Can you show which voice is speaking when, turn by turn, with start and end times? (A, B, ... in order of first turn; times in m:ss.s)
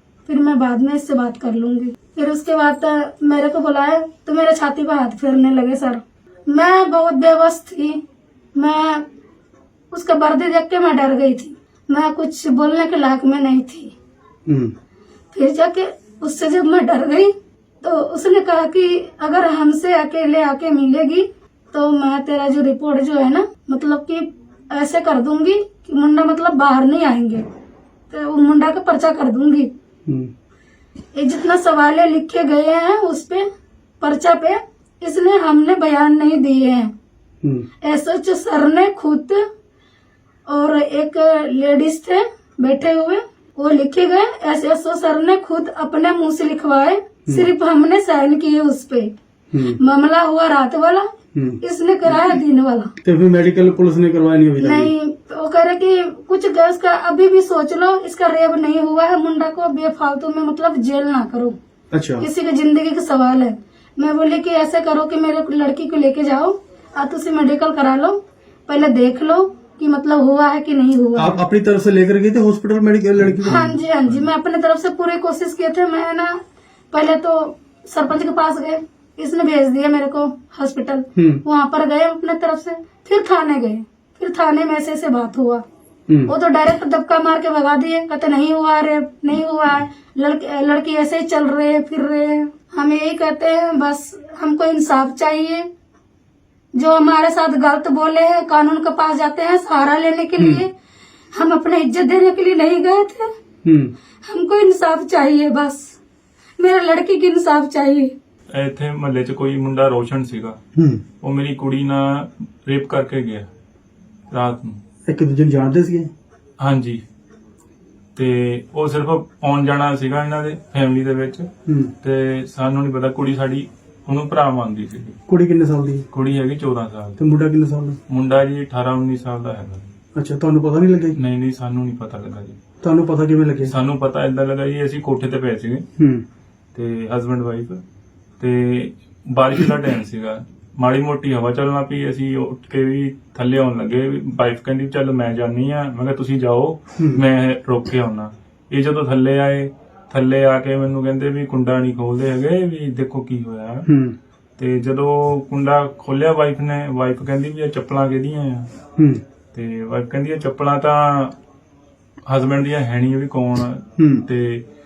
0:00.3-0:08.0 A
0:08.6-0:09.0 A
0:09.9-0:14.0 A
0:14.5-0:14.7 B
0:15.3-0:27.5 A
0:28.1-0:29.7 A
0:30.1-0:30.3 B
0:31.1-0:33.4 A
0:34.0-0:36.9 A
0:37.4-0:37.7 B
0:37.8-0:39.4 A
0:40.5-0:51.1 A
0:49.5-0:49.8 B
0:51.3-0:51.6 B
0:51.6-0:52.9 A
0:53.0-0:54.9 B
0:54.6-1:01.6 A
1:01.9-1:02.3 B
1:02.2-1:11.4 A
1:11.2-1:13.8 B
1:13.4-1:16.4 A
1:16.9-1:25.6 A
1:21.2-1:21.4 B
1:26.1-1:26.3 B
1:26.3-1:35.7 A
1:36.7-1:40.7 A
1:40.4-1:40.6 B
1:41.3-1:43.3 A
1:43.6-1:43.9 B
1:44.2-1:46.0 A
1:46.6-1:48.1 A
1:48.5-1:50.6 C
1:50.8-1:51.0 B
1:51.2-1:53.5 C
1:54.3-1:54.8 C
1:55.1-1:56.1 B
1:56.6-1:57.0 C
1:58.2-2:01.5 C
2:01.7-2:01.9 B
2:02.0-2:05.2 C
2:05.3-2:06.1 B
2:06.1-2:07.2 C
2:07.2-2:08.0 B
2:08.1-2:09.9 C
2:10.2-2:11.2 B
2:11.2-2:12.6 C
2:12.8-2:13.7 B
2:13.6-2:15.8 C
2:16.0-2:16.2 B
2:16.7-2:17.8 C
2:18.4-2:33.9 C
2:33.9-2:34.2 B
2:34.6-2:38.7 C
2:39.0-2:39.2 B
2:39.5-2:41.4 C
2:42.3-2:44.6 C
2:44.0-2:44.2 B